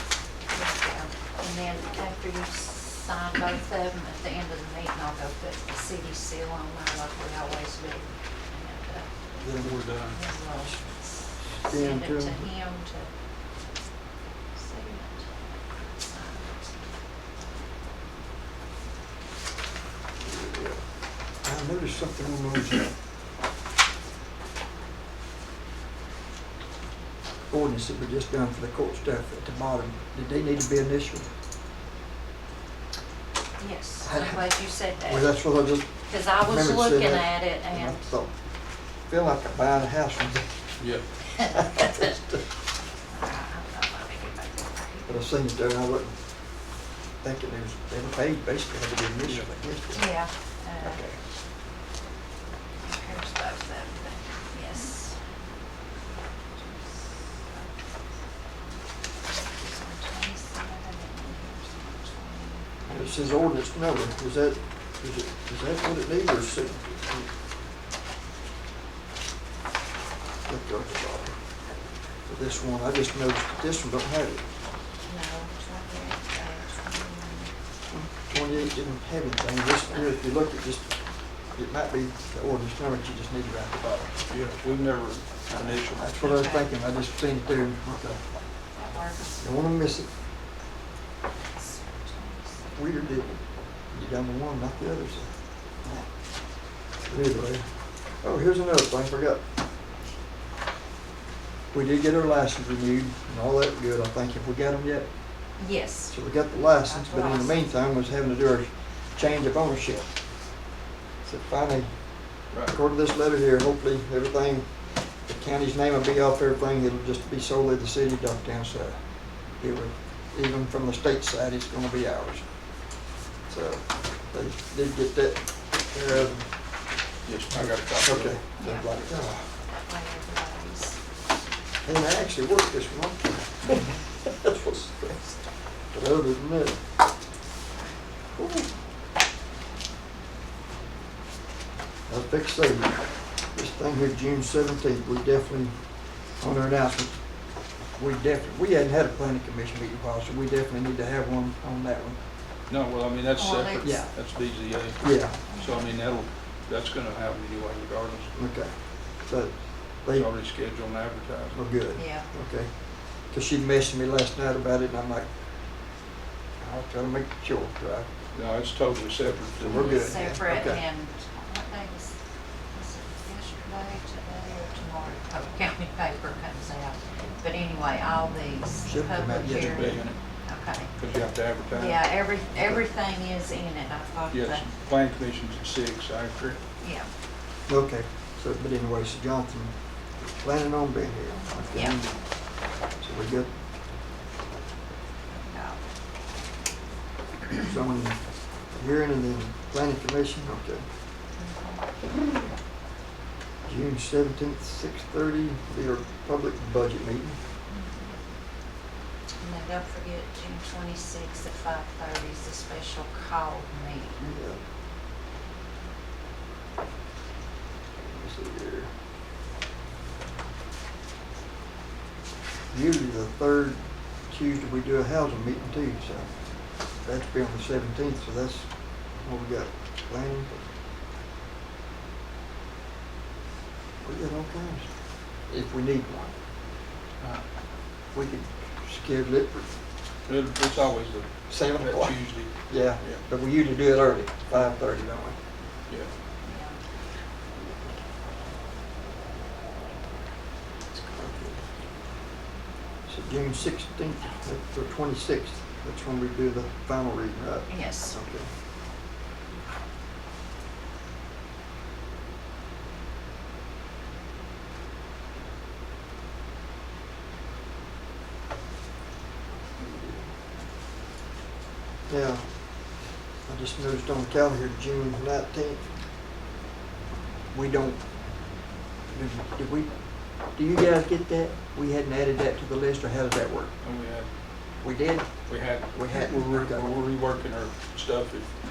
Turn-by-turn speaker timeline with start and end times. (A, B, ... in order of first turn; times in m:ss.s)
0:00.5-0:09.1 A
0:09.4-0:09.8 B
0:09.6-0:10.2 C
0:10.1-0:13.1 A
0:11.5-0:12.5 B
0:14.5-0:16.7 A
0:20.2-0:20.8 B
0:21.4-0:22.9 B
0:27.5-0:31.3 B
0:33.6-0:35.4 A
0:34.0-0:34.5 B
0:35.0-0:38.3 B
0:36.1-0:38.1 A
0:39.1-0:40.5 B
0:40.8-0:41.0 C
0:41.4-0:42.0 A
0:41.6-0:42.4 B
0:43.1-0:45.1 A
0:45.1-0:46.2 B
0:47.2-0:50.1 B
0:49.2-0:49.5 C
0:49.9-0:51.0 A
0:50.8-0:51.2 B
0:52.8-0:55.2 A
0:56.5-0:57.7 A
0:59.5-1:03.0 A
1:02.8-1:07.3 B
1:10.4-1:11.4 B
1:12.3-1:14.4 B
1:15.0-1:17.5 A
1:17.9-1:20.9 B
1:21.5-1:24.2 B
1:24.3-1:26.1 C
1:25.5-1:28.2 B
1:26.2-1:26.7 A
1:28.7-1:29.5 A
1:29.4-1:30.1 B
1:31.4-1:33.2 A
1:32.8-1:36.0 B
1:37.0-1:37.7 B
1:38.2-1:39.4 B
1:41.7-1:45.1 B
1:45.6-1:46.2 A
1:46.1-1:50.1 B
1:46.8-1:47.6 A
1:51.2-1:51.9 B
1:52.6-2:02.5 B
2:03.5-2:06.5 B
2:07.2-2:08.4 C
2:07.5-2:09.5 B
2:08.6-2:09.3 A
2:09.8-2:11.0 A
2:11.8-2:15.3 B
2:15.9-2:16.8 B
2:18.3-2:18.7 B
2:22.1-2:25.8 B
2:26.3-2:27.2 B
2:27.9-2:32.2 B
2:32.7-2:38.3 C
2:33.3-2:34.0 A
2:33.8-2:34.1 B
2:35.0-2:35.4 B
2:35.5-2:35.8 A
2:38.4-2:40.3 B
2:40.1-2:41.6 C
2:41.5-2:45.3 B
2:41.9-2:42.3 A
2:46.6-2:48.1 B
2:48.3-2:50.1 C
2:49.6-2:50.8 B
2:49.7-2:52.2 A
2:52.7-3:00.9 A
2:58.8-3:00.0 B
2:59.3-3:00.2 C
3:01.0-3:02.1 C
3:01.7-3:04.7 A
3:04.3-3:06.6 C
3:06.8-3:07.1 A
3:07.7-3:12.2 B
3:11.7-3:12.0 A
3:13.0-3:13.5 B
3:15.3-3:15.8 A
3:17.5-3:20.8 B
3:21.4-3:21.9 A
3:23.6-3:27.4 B
3:27.7-3:28.1 A
3:29.4-3:34.4 A
3:34.2-3:34.6 B
3:38.0-3:38.9 B
3:42.7-3:46.3 B
3:47.0-3:50.6 B
3:54.0-3:54.9 B
3:55.5-3:56.3 B
3:58.1-3:59.7 B
4:00.3-4:03.2 C
4:01.5-4:05.4 B
4:06.4-4:06.8 A
4:10.9-4:11.6 B
4:13.1-4:18.5 B
4:17.7-4:18.2 A
4:29.8-4:30.3 B
4:32.1-4:32.9 B
4:33.4-4:35.9 B
4:37.5-4:38.0 B
4:39.1-4:43.7 B
4:43.8-4:44.3 C
4:44.8-4:47.0 B
4:45.5-4:48.5 C